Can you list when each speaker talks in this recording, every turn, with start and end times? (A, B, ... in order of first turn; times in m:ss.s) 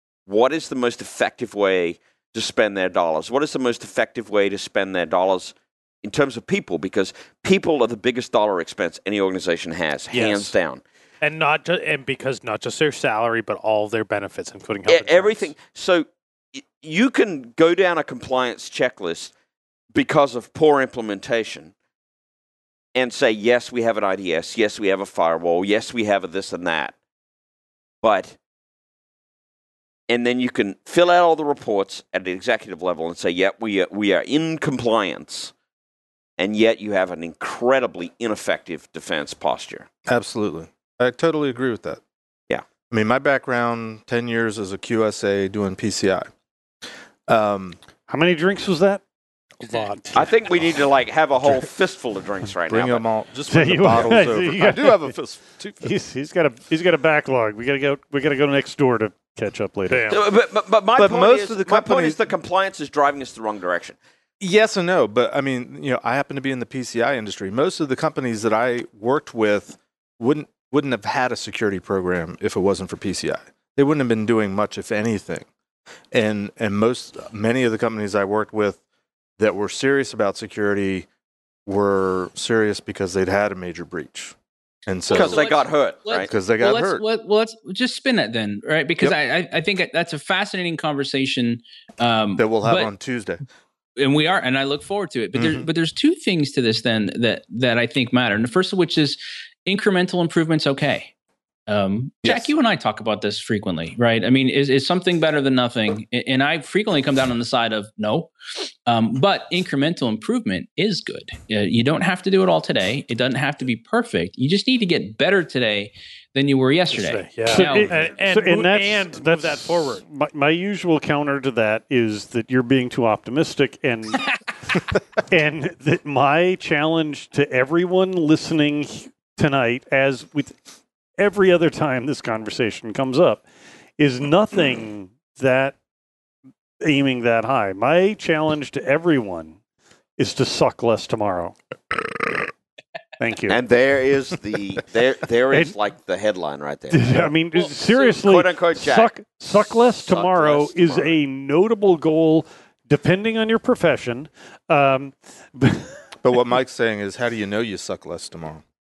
0:00.3-0:10.8 A
0:10.1-0:10.5 B
0:11.2-0:15.5 B
0:14.9-0:19.3 A
0:19.9-0:21.7 A
0:22.9-0:26.9 A
0:28.0-0:28.4 A
0:30.1-0:35.5 A
0:36.4-0:39.9 A
0:40.0-0:42.0 C
0:42.9-0:46.3 C
0:47.3-0:47.8 C
0:48.1-0:49.0 D
0:49.6-0:50.2 D
0:49.6-0:50.2 B
0:50.1-0:53.0 A
0:52.7-0:55.9 C
0:53.5-0:55.1 D
0:55.8-1:00.2 D
1:00.1-1:04.0 A
1:00.9-1:02.2 C
1:04.4-1:15.5 C
1:16.1-1:18.8 C
1:19.4-1:21.1 C
1:21.6-1:24.3 C
1:24.8-1:25.4 C
1:25.1-1:32.9 E
1:25.1-1:26.3 A
1:26.2-1:27.0 C
1:32.4-1:33.4 C
1:34.0-1:41.1 E
1:35.3-1:35.7 C
1:41.7-1:48.3 E
1:42.2-1:42.5 C
1:48.8-1:57.9 E
1:56.9-2:00.0 B
1:57.4-2:04.3 D
2:05.3-2:10.6 D
2:11.2-2:13.4 D
2:14.0-2:15.8 D
2:16.8-2:19.6 D
2:20.2-2:21.5 D
2:23.2-2:23.6 D
2:23.5-2:31.2 A
2:26.9-2:36.0 D
2:36.2-2:38.6 C